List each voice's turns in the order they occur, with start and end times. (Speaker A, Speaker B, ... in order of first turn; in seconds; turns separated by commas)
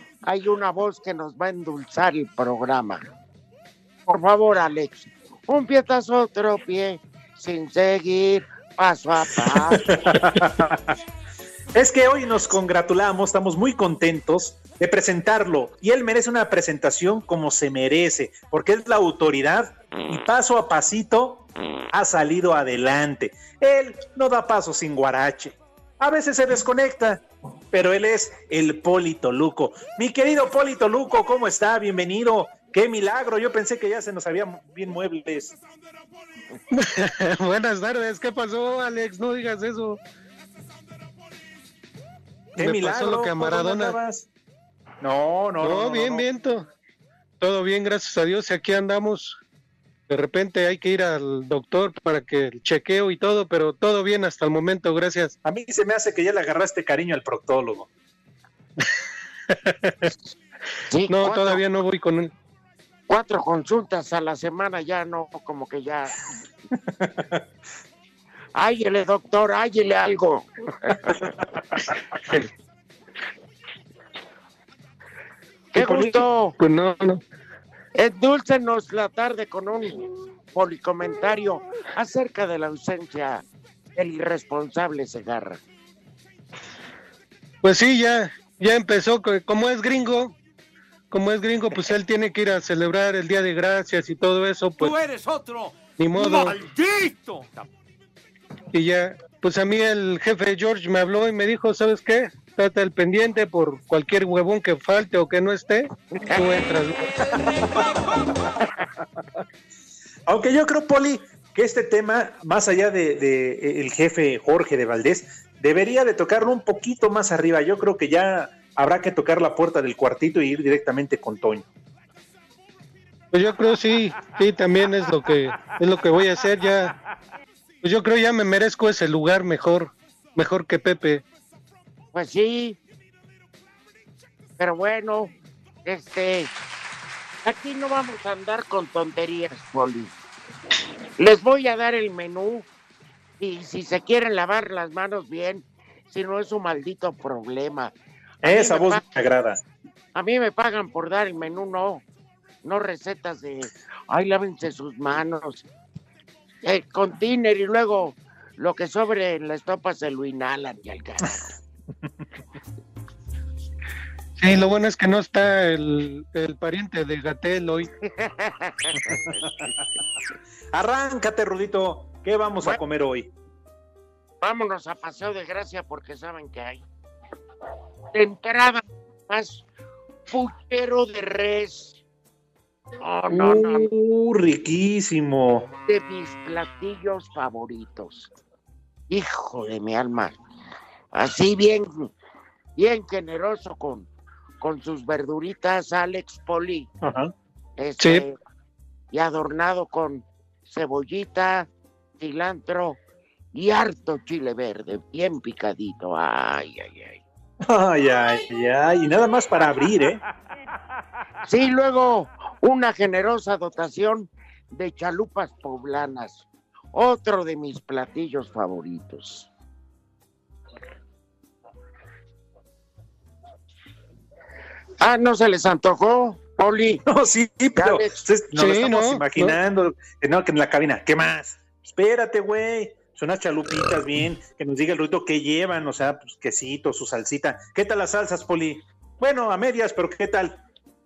Speaker A: 0.2-3.1, Speaker A: 4.1-10.0, Speaker B: 9.7-10.9, Speaker B: 11.7-35.6, Speaker C: 36.7-40.0, Speaker B: 42.6-44.3, Speaker C: 42.6-44.0, Speaker B: 45.0-46.2, Speaker C: 45.6-46.6, Speaker C: 47.4-49.4, Speaker C: 50.1-55.3, Speaker B: 55.4-57.9, Speaker A: 60.9-61.6, Speaker C: 61.1-62.3, Speaker A: 63.1-66.1, Speaker B: 66.9-67.3, Speaker A: 68.5-71.1, Speaker A: 75.7-76.5, Speaker B: 75.8-76.2, Speaker C: 76.6-77.2, Speaker A: 77.9-83.4, Speaker A: 83.9-85.6, Speaker C: 87.6-90.3, Speaker C: 91.1-95.0, Speaker D: 94.8-97.6, Speaker C: 96.0-96.6, Speaker C: 98.7-107.1, Speaker A: 106.1-106.5, Speaker B: 110.3-121.7, Speaker C: 123.3-126.9, Speaker C: 127.8-131.2, Speaker A: 132.1-132.8, Speaker A: 134.6-135.3, Speaker A: 135.8-136.5, Speaker A: 137.4-140.1, Speaker A: 141.2-142.7, Speaker A: 143.4-149.0, Speaker B: 148.4-149.6, Speaker A: 150.1-152.0, Speaker A: 152.6-155.6, Speaker A: 156.6-161.5, Speaker C: 164.4-167.9, Speaker A: 168.0-169.2, Speaker B: 169.0-169.8, Speaker B: 170.7-173.3, Speaker A: 174.4-176.8, Speaker A: 178.1-179.6, Speaker A: 180.3-182.0, Speaker A: 183.0-183.9, Speaker B: 183.3-185.7, Speaker A: 185.8-188.3, Speaker A: 189.1-190.4, Speaker A: 191.1-192.1, Speaker A: 192.8-194.1, Speaker A: 194.6-196.9, Speaker B: 197.0-197.3, Speaker A: 197.8-198.3, Speaker C: 198.0-198.2, Speaker A: 199.1-201.7, Speaker A: 202.2-203.0, Speaker A: 203.5-207.2, Speaker B: 207.6-210.2, Speaker A: 211.4-219.5, Speaker A: 225.0-227.0, Speaker B: 227.1-240.6, Speaker A: 227.7-228.2, Speaker C: 228.5-229.5